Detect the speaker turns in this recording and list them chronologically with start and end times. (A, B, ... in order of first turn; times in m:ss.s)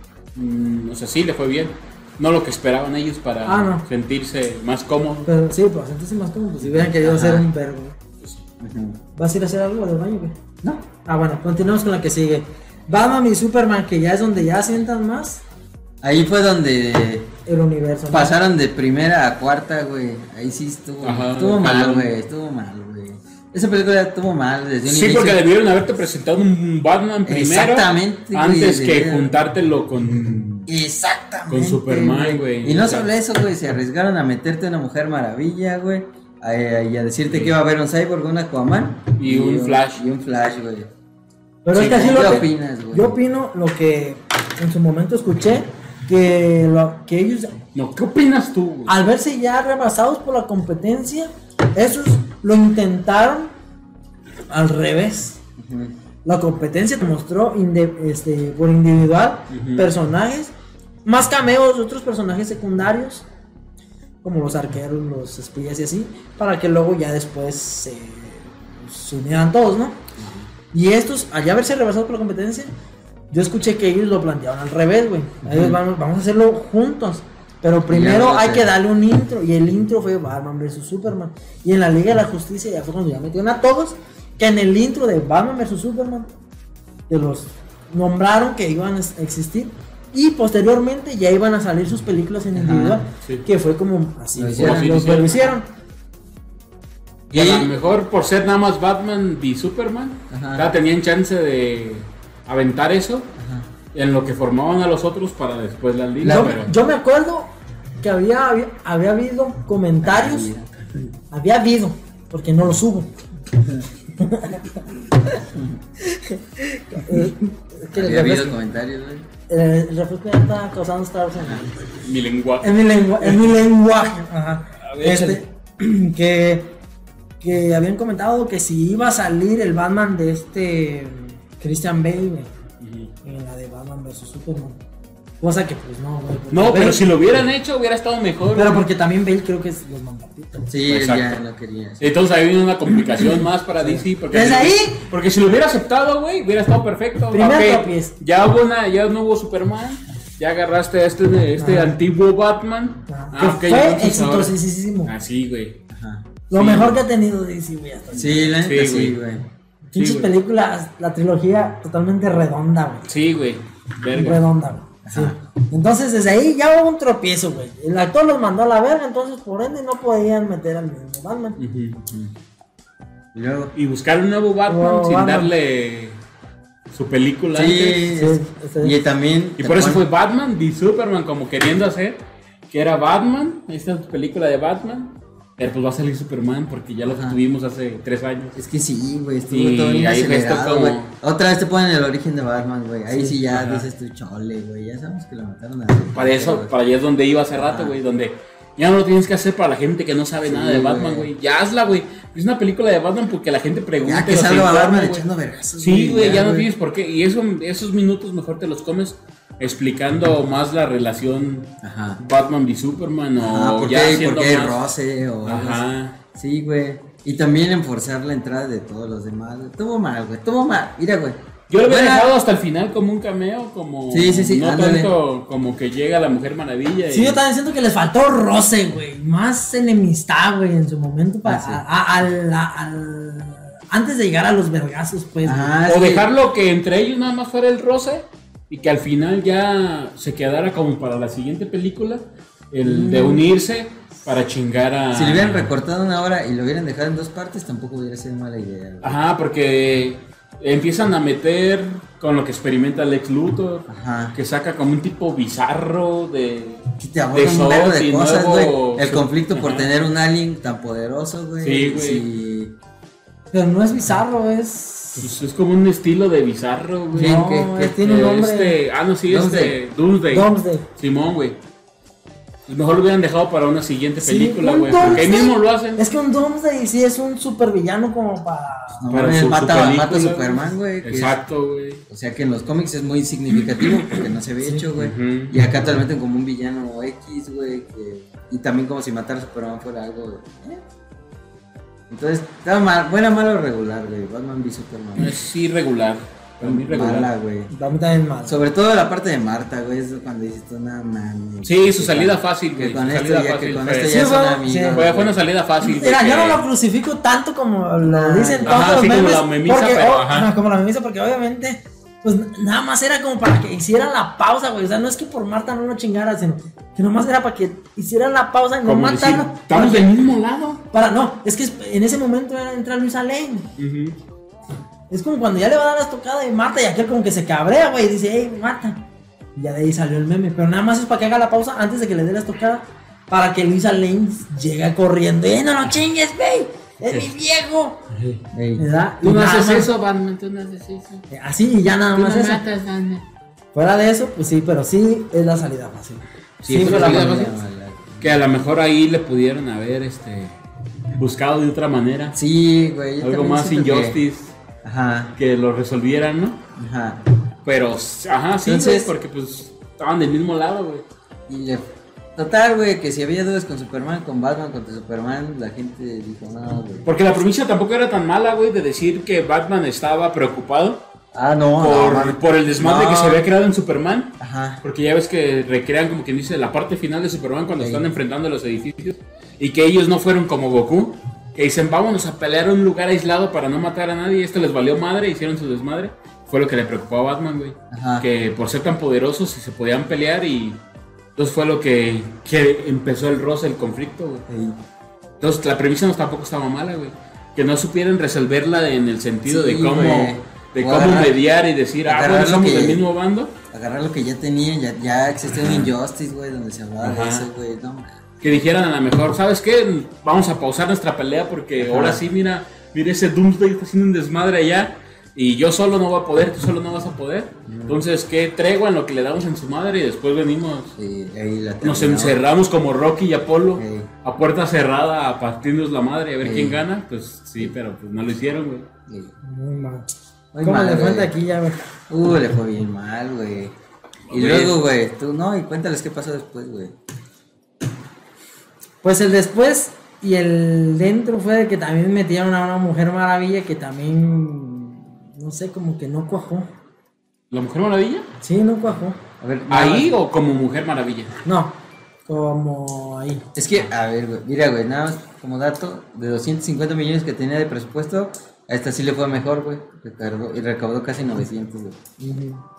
0:00.4-0:05.3 A
0:03.5-0:03.8 B
0:05.3-0:08.0 B
0:06.6-0:07.5 C
0:08.6-0:09.0 C
0:09.2-0:10.4 B
0:11.0-0:15.4 B
0:16.0-0:17.3 C
0:17.5-0:18.4 B
0:18.1-0:25.4 C
0:21.0-0:22.1 A
0:24.9-0:30.7 A
0:27.2-0:29.3 C
0:30.7-0:40.9 C
0:31.5-0:33.1 A
0:39.2-0:40.0 A
0:41.6-0:47.6 B
0:41.7-0:42.5 A
0:41.9-0:43.2 C
0:47.8-0:49.0 A
0:48.9-0:53.5 B
0:54.5-0:55.4 B
0:55.6-0:55.9 C
0:56.2-1:00.5 B
0:59.5-0:59.9 A
1:01.0-1:03.3 B
1:04.2-1:10.0 B
1:10.2-1:10.5 A
1:10.7-1:12.7 B
1:13.3-1:26.3 B
1:15.4-1:15.8 C
1:17.9-1:18.7 C
1:27.1-1:35.7 B
1:32.6-1:33.0 C
1:34.4-1:35.0 C
1:34.6-1:35.6 A
1:37.3-1:43.3 A
1:37.3-1:37.7 C
1:40.3-1:40.7 C
1:43.4-1:43.7 C
1:43.9-1:46.7 A
1:46.2-1:46.6 C
1:46.2-1:47.5 B
1:48.0-1:50.5 B
1:50.0-1:50.8 C
1:51.3-1:53.1 B
1:54.2-1:54.8 B
1:55.5-1:55.8 C
1:56.0-1:58.6 B
1:57.9-1:59.3 C
1:59.5-2:01.7 B
2:02.0-2:03.5 A
2:02.6-2:06.8 B
2:04.8-2:05.4 A
2:07.4-2:12.5 B
2:12.8-2:13.1 A
2:13.2-2:14.8 B
2:15.4-2:17.0 B
2:16.5-2:18.8 A
2:18.5-2:20.7 B
2:20.7-2:22.1 C
2:20.9-2:21.4 A
2:22.0-2:35.8 A
2:23.2-2:25.1 B
2:27.3-2:28.1 B
2:31.6-2:32.0 B
2:33.1-2:35.1 B
2:35.9-2:36.4 C
2:36.5-2:38.6 B
2:36.5-2:37.0 A
2:38.1-2:39.5 C
2:38.6-2:39.2 A
2:39.9-2:43.0 B
2:40.0-2:40.3 A
2:43.1-2:44.4 A
2:44.1-2:51.6 B
2:45.0-2:45.4 C
2:51.6-2:52.0 A
2:52.0-2:52.3 C
2:53.3-2:53.7 C
2:53.8-2:56.2 A
2:54.7-2:55.5 B
2:56.9-2:58.1 A
2:57.5-3:00.0 C
2:58.1-2:59.0 B
2:59.6-3:08.6 A
3:07.1-3:07.4 C
3:08.6-3:16.7 C
3:09.5-3:11.1 A
3:13.4-3:13.9 A
3:16.1-3:25.2 A
3:17.6-3:18.0 C
3:20.4-3:21.3 C
3:24.0-3:26.7 C
3:25.8-3:34.8 A
3:31.8-3:32.2 C
3:33.4-3:42.3 C
3:35.4-3:36.2 A
3:41.7-3:47.4 A
3:44.1-3:45.1 C
3:47.1-3:55.7 B
3:51.4-3:51.8 C
3:55.4-3:56.3 C
3:55.9-4:05.7 A
4:02.8-4:03.4 B
4:05.1-4:09.2 C
4:09.0-4:19.9 A
4:13.9-4:14.4 C
4:17.0-4:22.7 C
4:21.6-4:22.2 A
4:23.5-4:25.3 B
4:25.2-4:27.4 A
4:27.1-4:28.0 C
4:27.2-4:28.8 B
4:28.0-4:31.6 A
4:29.3-4:29.8 C
4:30.3-4:30.8 B
4:32.7-4:36.0 A
4:34.2-4:39.0 B
4:35.0-4:35.3 C
4:39.0-4:41.4 C
4:39.1-4:42.0 A
4:42.1-4:50.8 C
4:45.0-4:45.7 A
4:52.1-4:55.4 C
4:55.2-4:57.3 A
4:56.6-4:57.7 C
4:57.7-4:58.6 B
4:58.4-5:05.4 C
5:01.7-5:04.2 A
5:04.1-5:05.0 B
5:04.9-5:06.6 A
5:05.8-5:20.1 B
5:08.0-5:09.2 C
5:08.7-5:10.5 A
5:18.8-5:20.8 A
5:20.9-5:23.7 B
5:23.8-5:24.2 A
5:25.1-5:29.0 B
5:29.6-5:38.0 B
5:38.1-5:38.4 A
5:38.5-5:38.8 C
5:38.8-5:39.9 B
5:39.2-5:41.3 A
5:41.3-5:42.6 B
5:42.2-5:43.2 A
5:43.8-5:47.3 B
5:46.6-5:47.6 A
5:46.7-5:48.4 C
5:48.2-5:50.5 A
5:51.1-5:52.4 A
5:52.3-5:54.2 C
5:53.2-5:54.6 A
5:54.8-5:55.4 C
5:55.4-5:56.6 A
5:56.8-5:57.2 C
5:57.6-6:01.0 A
5:58.6-5:59.1 C
6:01.5-6:01.8 C
6:02.4-6:07.1 C
6:07.0-6:11.0 A
6:11.3-6:13.4 C
6:11.8-6:30.8 A
6:14.4-6:14.8 C
6:17.8-6:18.0 C
6:27.9-6:28.3 C
6:31.4-6:34.4 A
6:34.5-6:34.8 C
6:35.4-6:43.5 A
6:39.5-6:41.4 C
6:42.0-6:43.1 C
6:43.7-6:48.2 C
6:45.6-6:45.9 A
6:47.0-6:47.5 A
6:48.4-7:01.0 A
6:51.8-6:52.2 C
6:57.7-6:58.0 C
7:01.0-7:02.4 C
7:01.8-7:08.9 A
7:03.8-7:04.1 C
7:06.4-7:06.8 C
7:09.1-7:09.3 C
7:09.4-7:10.1 B
7:10.5-7:11.3 C
7:10.6-7:11.8 B
7:12.1-7:13.7 C
7:14.3-7:14.8 A
7:14.3-7:17.0 C
7:19.0-7:26.7 B
7:27.5-7:28.3 A
7:28.4-7:29.2 B
7:29.4-7:30.2 C
7:29.7-7:31.4 A
7:31.4-7:33.4 B
7:33.6-7:42.0 C
7:42.2-7:42.6 B